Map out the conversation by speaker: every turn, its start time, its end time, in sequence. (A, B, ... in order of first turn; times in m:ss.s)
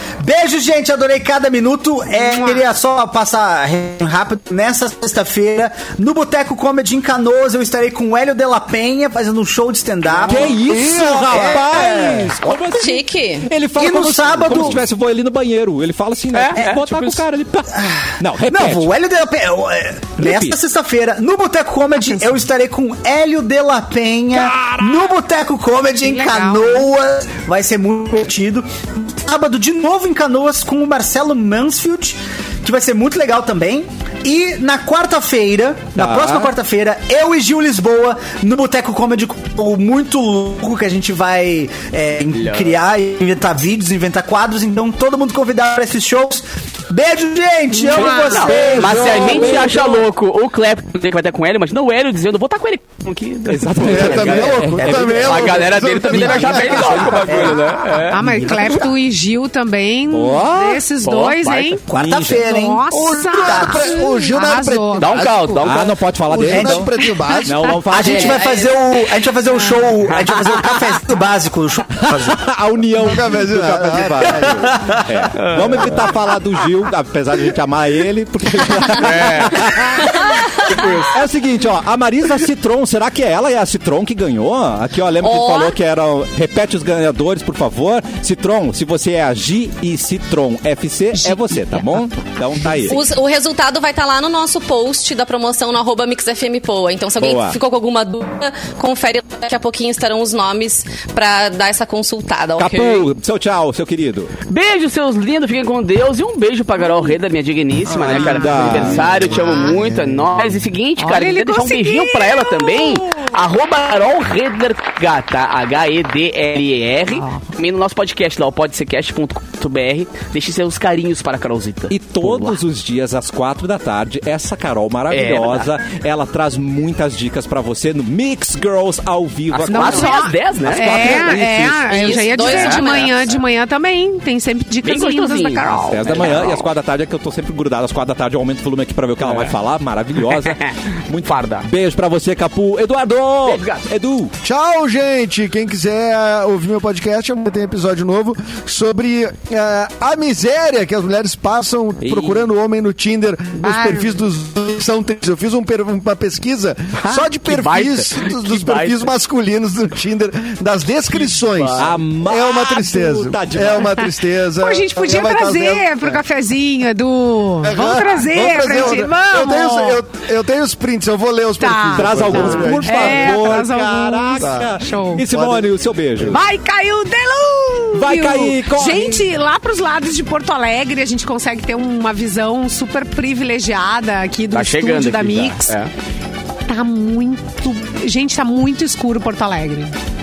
0:00.2-0:12.2 A
0:10.2-0:18.9 B
0:10.3-0:12.3 C
0:12.8-0:13.5 D
0:13.8-0:14.8 A
0:16.3-0:17.2 E
0:17.7-0:49.8 A
0:20.2-0:20.6 B
0:26.0-0:26.9 F
0:36.0-0:36.5 B
0:42.3-0:42.8 E
0:47.7-0:48.1 F
0:47.9-0:50.1 B
0:48.0-0:58.2 E
0:53.5-0:58.9 B
0:53.8-0:57.5 C
0:57.3-0:57.6 A
0:58.1-1:05.6 F
1:00.1-1:00.8 B
1:01.0-1:01.8 E
1:01.9-1:04.1 A
1:01.9-1:02.5 B
1:03.5-1:05.7 C
1:05.0-1:06.0 E
1:05.6-1:06.9 B
1:06.3-1:07.6 C
1:06.4-1:06.9 A
1:07.2-1:07.7 F
1:07.4-1:08.5 B
1:07.9-1:12.4 A
1:08.0-1:08.7 D
1:12.1-1:20.4 B
1:13.0-1:14.9 C
1:14.2-1:15.1 A
1:15.4-1:15.9 E
1:18.9-1:21.2 E
1:21.1-1:33.0 B
1:25.2-1:25.8 D
1:31.2-1:31.9 F
1:32.6-1:33.0 F
1:32.9-1:43.1 D
1:37.2-1:37.6 B
1:42.6-1:44.3 B
1:44.5-2:02.6 E
1:47.9-1:50.6 B
1:48.1-1:48.7 F
1:49.4-1:49.7 F
1:51.0-1:53.3 F
1:57.1-1:57.4 F
2:01.9-2:12.1 B
2:05.1-2:05.7 E
2:09.5-2:13.2 E
2:09.7-2:16.1 F
2:11.9-2:13.2 D
2:14.8-2:16.7 E
2:15.9-2:24.3 B
2:19.2-2:19.5 E
2:20.5-2:20.7 E
2:21.2-2:21.7 E
2:23.5-2:23.8 E
2:24.4-2:46.2 C
2:33.6-2:34.2 F
2:37.0-2:39.1 E
2:41.1-2:41.9 E
2:41.8-2:44.0 B
2:44.6-2:50.0 F
2:47.6-2:53.6 C
2:51.6-2:55.3 F
2:52.0-2:56.4 B
2:54.4-2:54.8 C
2:55.3-2:55.7 C
2:56.2-3:05.8 F
2:57.9-2:59.3 B
3:04.5-3:05.9 E
3:06.7-3:09.9 F